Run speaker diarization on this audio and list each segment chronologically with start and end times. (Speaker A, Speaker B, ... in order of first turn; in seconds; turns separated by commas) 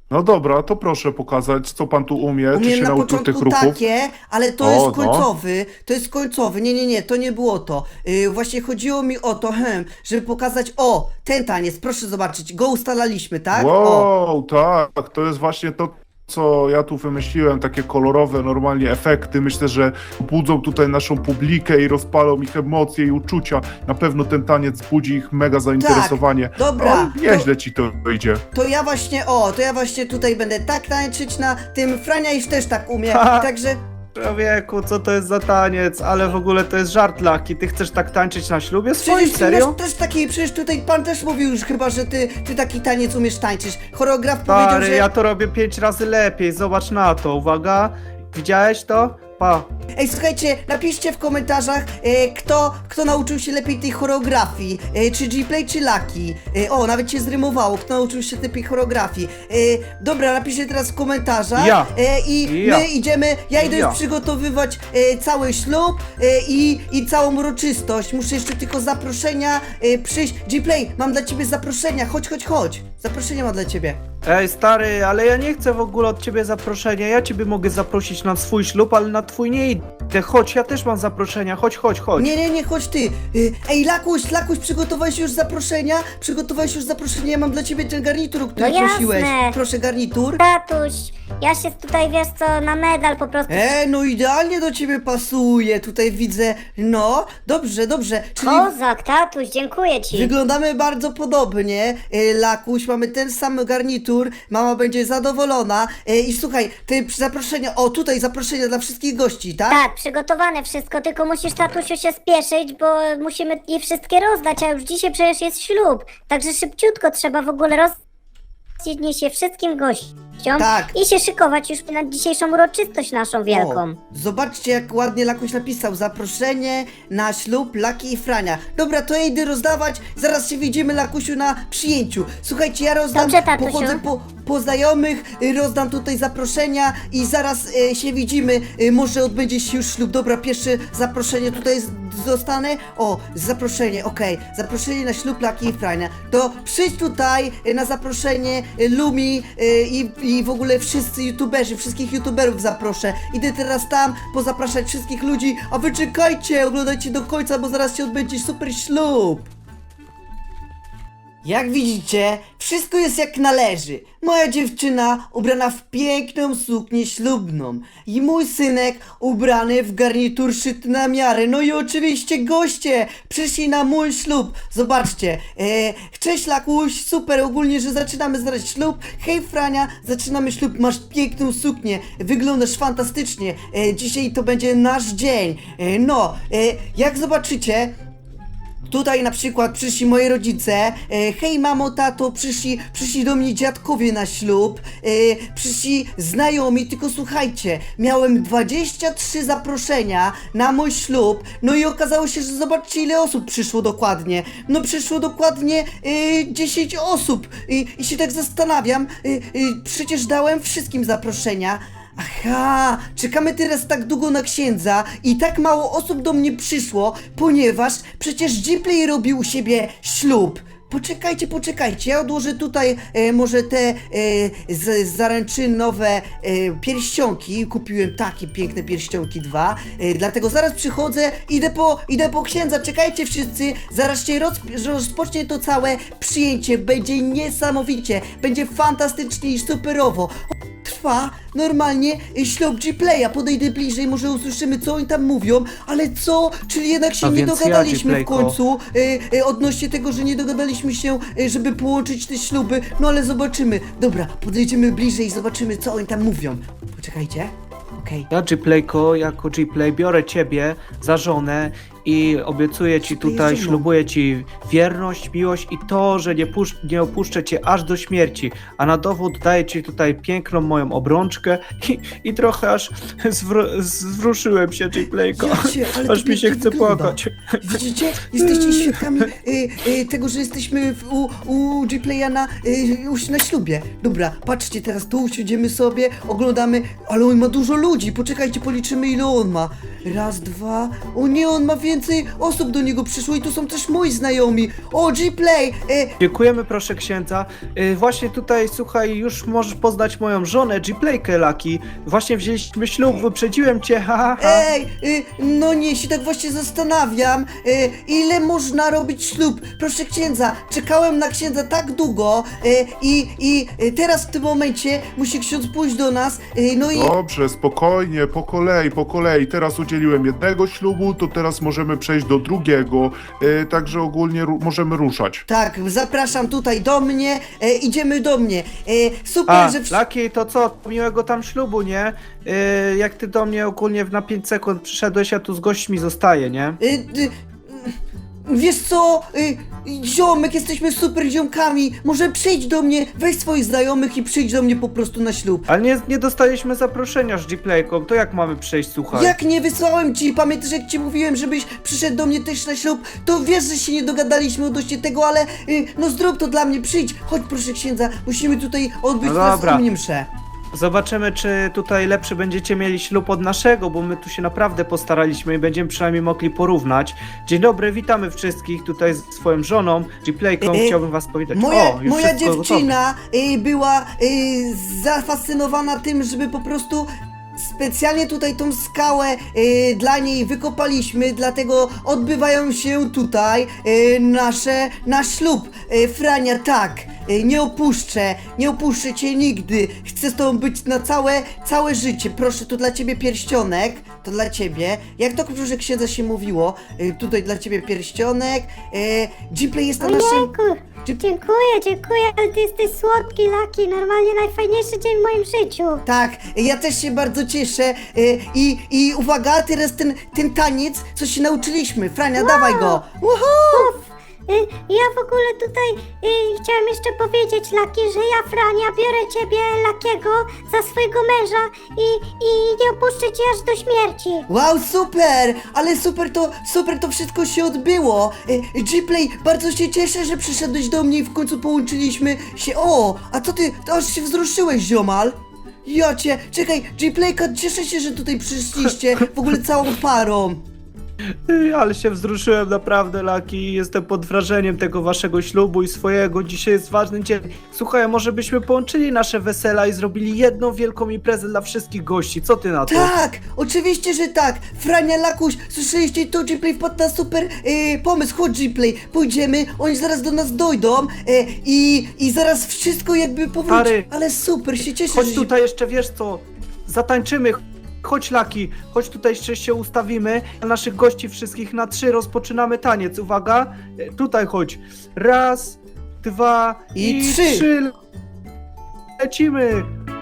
Speaker A: 0.1-3.8, Speaker B: 2.5-14.1, Speaker A: 4.6-5.3, Speaker A: 13.5-28.4, Speaker B: 25.8-27.5, Speaker B: 28.5-33.8, Speaker C: 33.1-33.5, Speaker C: 34.2-39.8, Speaker B: 39.0-45.1, Speaker C: 44.5-49.7, Speaker B: 50.0-74.0, Speaker C: 61.6-61.9, Speaker C: 62.5-62.9, Speaker C: 63.5-64.0, Speaker C: 74.2-82.3, Speaker B: 82.2-90.4, Speaker D: 88.6-89.6, Speaker D: 90.4-93.8, Speaker B: 93.5-98.7, Speaker D: 98.4-100.3, Speaker B: 100.1-109.8, Speaker D: 109.7-118.0, Speaker D: 118.8-124.0, Speaker B: 120.6-121.0, Speaker B: 123.5-159.5, Speaker D: 133.1-134.0, Speaker B: 161.4-187.9, Speaker B: 188.9-258.3, Speaker C: 247.2-248.6, Speaker C: 258.3-277.8, Speaker B: 263.1-263.9, Speaker B: 275.4-296.1, Speaker C: 278.4-279.0, Speaker C: 296.2-304.7, Speaker B: 304.4-317.2, Speaker A: 316.9-325.4, Speaker B: 325.5-330.0, Speaker C: 329.5-336.8, Speaker B: 336.8-337.9, Speaker B: 338.5-345.7, Speaker C: 345.7-349.4, Speaker B: 349.1-360.3, Speaker C: 359.2-359.8, Speaker C: 360.7-372.9, Speaker B: 370.6-371.0, Speaker B: 371.5-400.5, Speaker D: 400.0-406.0, Speaker B: 406.1-413.9, Speaker D: 412.4-413.0, Speaker D: 413.7-424.5, Speaker B: 424.5-440.6, Speaker C: 441.5-453.1, Speaker B: 452.9-465.5, Speaker C: 463.7-464.1, Speaker C: 465.1-477.9, Speaker B: 477.0-477.7, Speaker C: 479.2-479.9